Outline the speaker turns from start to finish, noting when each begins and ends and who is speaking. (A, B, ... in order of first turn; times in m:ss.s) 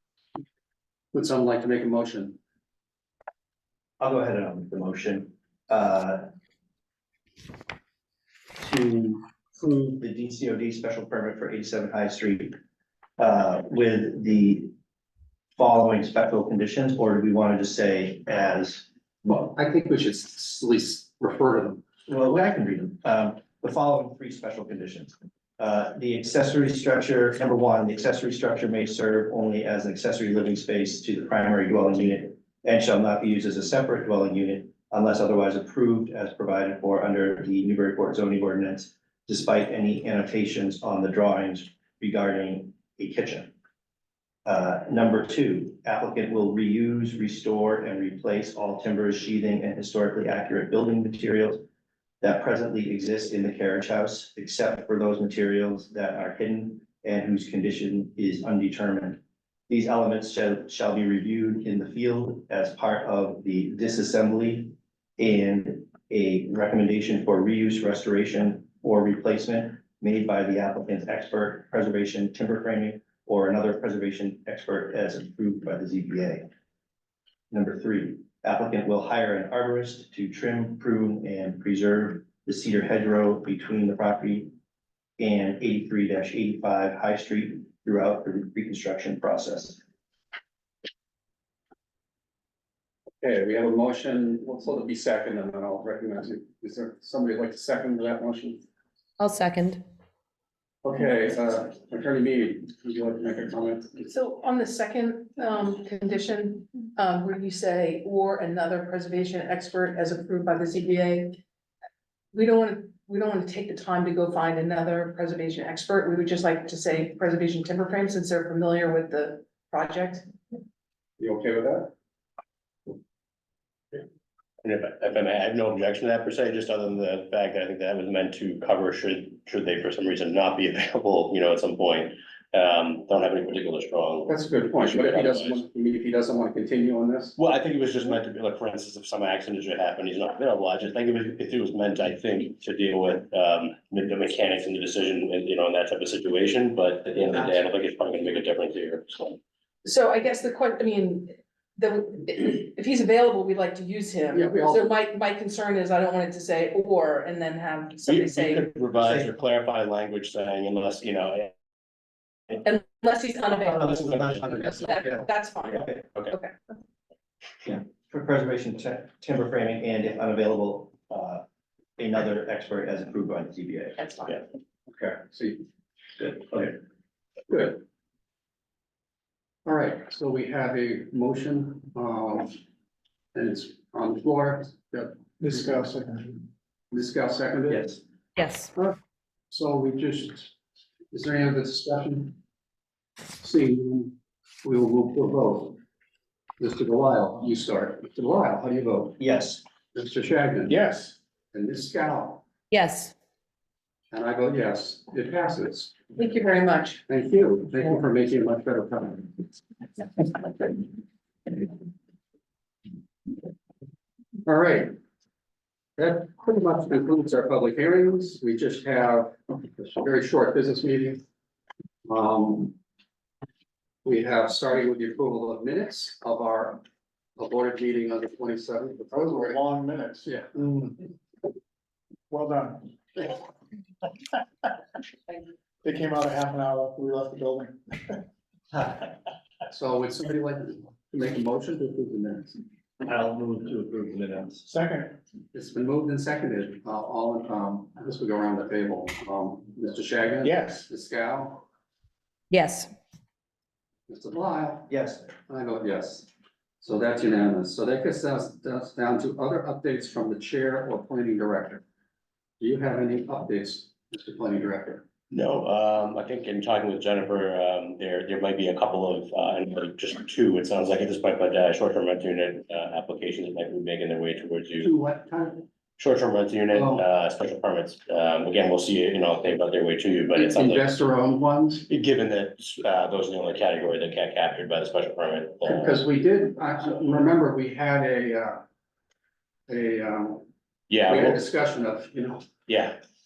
0:01.1-0:02.4 A
0:04.0-0:06.3 B
0:08.6-0:12.5 B
0:13.2-0:14.7 B
0:15.6-0:18.9 B
0:19.2-0:21.8 A
0:22.1-0:43.5 B
0:44.4-0:51.6 B
0:52.2-1:16.5 B
1:17.5-1:24.5 B
1:25.2-1:29.8 B
1:33.2-1:38.6 A
1:39.2-1:39.8 C
1:40.8-1:44.1 A
1:44.1-1:51.4 D
1:52.3-2:00.3 D
2:01.2-2:01.9 A
2:04.6-2:15.6 E
2:14.3-2:17.4 A
2:17.4-2:29.4 E
2:29.8-2:38.7 D
2:34.3-2:34.9 A
2:38.1-2:41.5 E
2:39.0-2:39.3 B
2:42.6-2:46.6 D
2:43.8-2:46.0 B
2:47.6-2:51.4 B
2:52.0-2:54.0 B
2:54.0-2:54.4 D
2:54.9-2:55.6 A
2:56.2-2:56.8 B
2:57.5-2:57.8 A
2:59.6-3:02.6 A
3:03.3-3:05.7 A
3:05.4-3:06.4 F
3:06.9-3:07.9 A
3:07.7-3:08.0 B
3:08.4-3:08.7 C
3:09.5-3:10.5 A
3:11.1-3:12.4 A
3:13.4-3:15.8 A
3:16.6-3:19.2 A
3:19.2-3:19.6 B
3:19.9-3:20.8 A
3:20.7-3:21.2 F
3:21.5-3:22.5 A
3:22.7-3:23.1 C
3:24.1-3:26.0 A
3:26.2-3:27.0 D
3:27.1-3:29.5 A
3:34.5-3:35.0 A
3:36.0-3:41.2 A
3:42.1-3:42.8 A
3:44.0-3:46.8 A
3:47.4-3:49.6 A
3:49.1-3:51.0 F
3:52.3-3:53.3 F
3:55.8-3:58.2 F
3:59.7-4:02.6 A
4:03.0-4:04.7 B
4:04.7-4:05.2 F
4:05.5-4:11.6 A
4:10.4-4:10.9 F
4:12.5-4:12.9 C
4:14.1-4:14.9 A
4:14.9-4:15.3 B
4:15.5-4:16.3 A
4:16.8-4:21.8 A
4:22.6-4:25.1 A
4:25.3-4:34.9 E
4:34.8-4:35.7 A
4:36.0-4:40.9 E
4:36.7-4:37.1 A
4:40.3-4:41.9 A
4:41.9-4:46.0 E
4:45.6-4:48.6 A
4:49.7-4:50.5 A
4:50.9-4:51.4 E
4:51.1-4:52.5 A
4:52.7-4:53.0 E